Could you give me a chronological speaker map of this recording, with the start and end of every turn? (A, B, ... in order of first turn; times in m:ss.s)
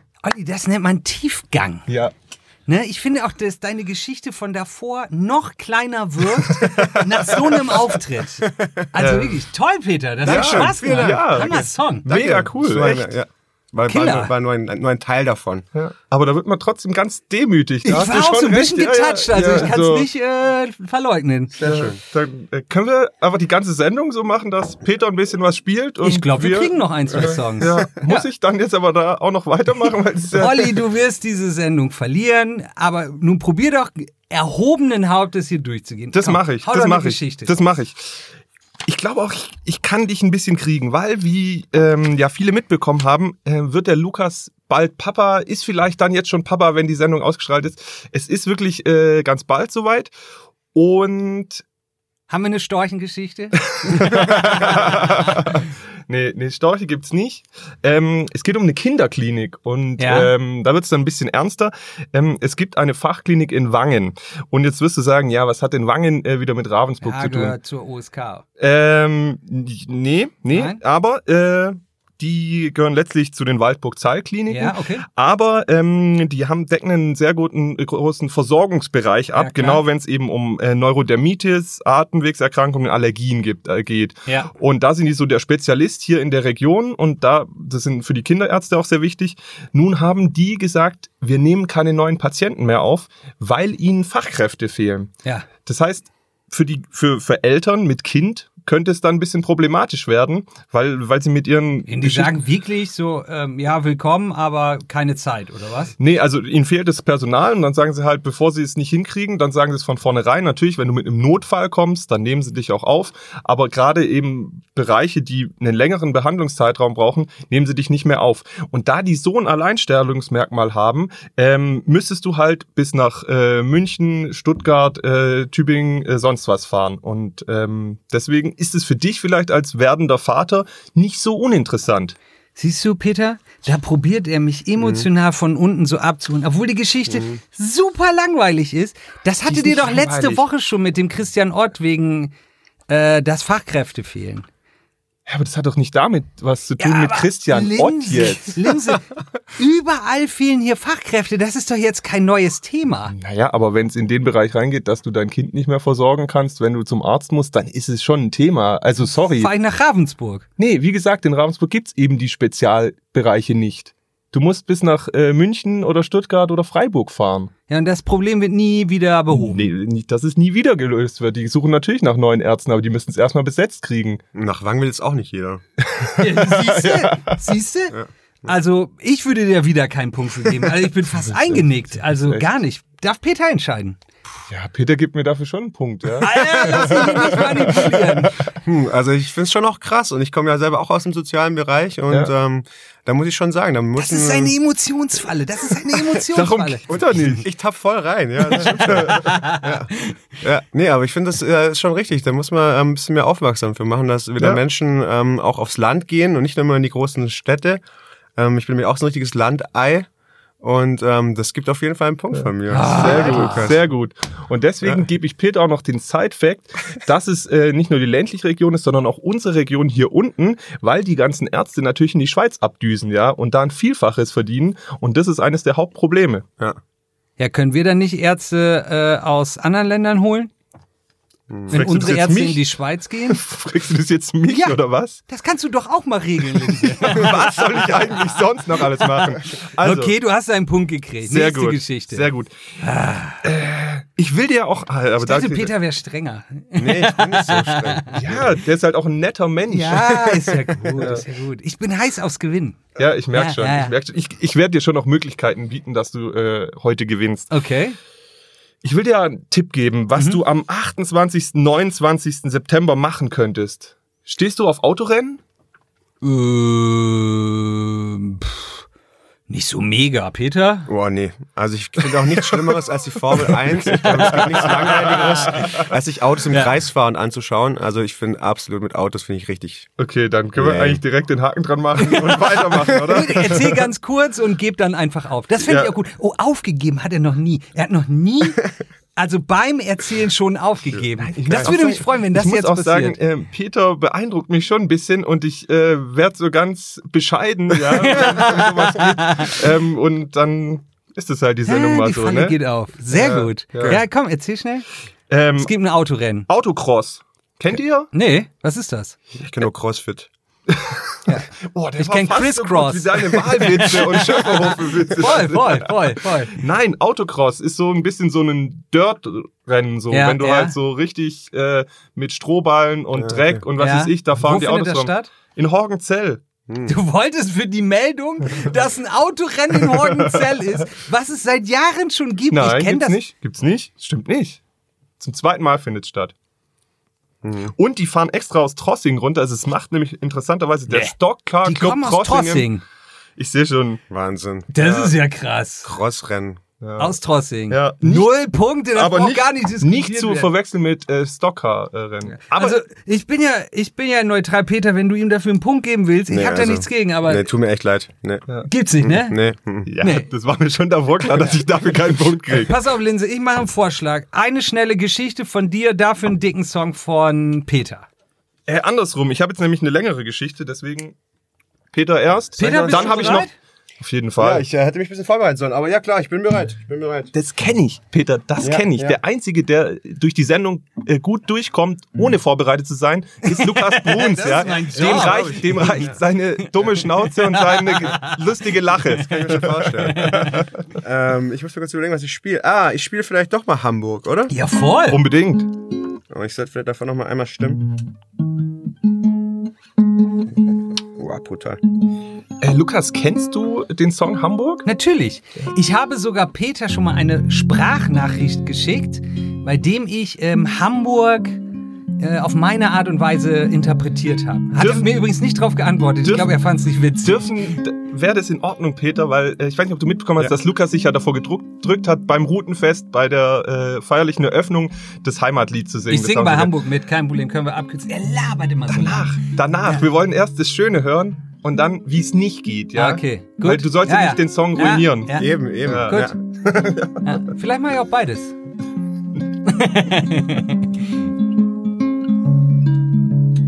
0:00.2-0:01.8 A
0:01.9-0:02.1 B
0:02.7-0:12.1 A
0:07.3-0:07.8 B
0:08.4-0:08.9 C
0:09.0-0:09.4 B
0:10.2-0:13.1 B
0:10.2-0:15.6 C
0:13.9-0:14.3 A
0:15.7-0:20.1 B
0:17.8-0:21.7 A
0:21.6-0:30.7 B
0:21.6-0:22.0 C
0:26.0-0:28.3 A
0:27.2-0:27.8 C
0:30.4-0:37.6 A
0:36.1-0:38.2 B
0:38.8-0:50.1 B
0:50.7-0:51.6 B
0:52.3-0:55.6 A
0:53.8-1:07.5 B
1:00.0-1:00.3 A
1:07.0-1:08.4 A
1:08.6-1:35.1 B
1:10.5-1:10.8 A
1:14.5-1:15.0 A
1:19.4-1:19.8 A
1:35.6-1:42.4 B
1:41.9-1:45.9 A
1:46.0-2:12.2 B
2:12.6-2:22.3 A
2:14.8-2:15.1 C
2:17.1-2:17.4 C
2:19.5-2:20.4 B
2:22.9-2:24.5 A
2:25.2-2:28.6 B
2:26.8-2:33.1 A
2:33.1-2:39.5 B
2:39.3-2:40.4 A
2:40.6-2:47.5 B
2:47.7-2:49.7 A
2:49.3-2:54.2 B
2:54.3-2:55.6 C
2:55.8-2:57.4 B
2:56.2-3:04.0 A
3:01.2-3:02.4 B
3:04.5-3:08.2 B
3:06.2-3:08.4 A
3:08.6-3:14.5 C
3:14.0-3:16.8 A
3:16.3-3:17.4 B
3:16.9-3:27.8 C
3:18.5-3:19.2 B
3:18.6-3:20.1 A
3:28.4-3:30.1 C
3:30.6-3:33.8 C
3:32.4-3:46.4 B
3:32.7-3:33.7 A
3:47.4-3:50.5 A
3:51.5-3:51.8 C
3:51.7-3:52.6 B
3:51.7-3:53.4 A
3:53.3-3:55.2 B
3:54.5-3:57.3 A
3:56.8-4:00.1 B
3:57.2-3:58.0 C
3:59.8-4:03.4 A
4:01.2-4:02.5 B
4:03.4-4:05.7 B
4:05.2-4:08.1 A
4:06.8-4:08.5 C
4:08.1-4:10.4 B
4:09.7-4:13.9 A
4:11.0-4:11.2 B
4:13.0-4:17.5 B
4:17.5-4:18.0 A
4:18.8-4:25.4 B
4:20.2-4:20.4 A
4:26.2-4:28.8 A
4:29.5-4:30.9 A
4:30.9-4:39.9 C
4:33.4-4:35.7 A
4:34.4-4:35.7 B
4:40.0-4:43.8 B
4:40.6-4:41.0 C
4:42.0-4:53.2 A
4:45.6-4:45.9 B
4:50.9-4:51.8 C
4:51.4-5:02.6 B
4:58.0-4:59.6 A
5:01.6-5:04.9 A
5:03.1-5:04.0 B
5:03.8-5:04.0 C
5:05.3-5:05.7 B
5:05.6-5:06.5 A
5:06.5-5:08.1 B
5:08.1-5:09.2 A
5:09.4-5:10.3 C
5:10.7-5:11.2 B
5:11.3-5:14.5 A
5:11.7-5:16.0 B
5:14.2-5:15.3 C
5:15.2-5:16.6 A
5:16.5-5:26.4 B
5:20.1-5:20.7 A
5:23.2-5:23.6 C
5:23.8-5:25.3 A
5:26.7-5:26.9 C
5:26.8-5:33.2 A
5:32.5-5:34.6 B
5:35.2-5:36.3 B
5:37.4-5:37.7 C
5:37.7-5:42.7 B
5:41.6-5:42.8 A
5:43.4-5:44.0 B
5:44.1-5:44.8 C
5:44.7-5:45.9 A
5:44.8-5:45.1 B
5:45.8-5:46.6 C
5:46.8-5:47.2 B
5:47.0-5:50.5 A
5:47.7-5:48.3 B
5:48.9-5:52.8 B
5:52.4-5:57.5 A
5:56.3-5:58.5 C
5:58.7-5:59.4 A
5:59.0-5:59.9 C
5:59.8-6:02.8 B
6:00.0-6:00.3 A
6:02.6-6:08.1 A
6:08.7-6:11.1 B
6:11.9-6:13.5 B
6:12.6-6:13.5 A
6:12.6-6:13.4 C
6:14.0-6:14.6 B
6:14.4-6:17.3 C
6:17.3-6:30.7 B
6:18.6-6:19.2 C
6:23.4-6:26.0 A
6:24.9-6:26.1 C
6:27.5-6:28.4 A
6:29.3-6:34.5 C
6:29.4-6:30.6 A
6:34.5-6:35.2 A
6:35.1-6:35.7 B
6:36.3-6:37.9 C
6:41.1-6:41.8 C
6:42.6-6:44.9 B
6:44.8-6:51.6 A
6:52.2-6:57.5 A
6:54.8-6:55.1 B
6:56.2-6:56.6 B
6:57.2-7:06.7 B
7:06.1-7:09.3 A
7:08.9-7:17.2 B
7:13.0-7:16.3 A
7:15.4-7:16.9 C
7:17.2-7:18.5 A
7:19.6-7:20.8 A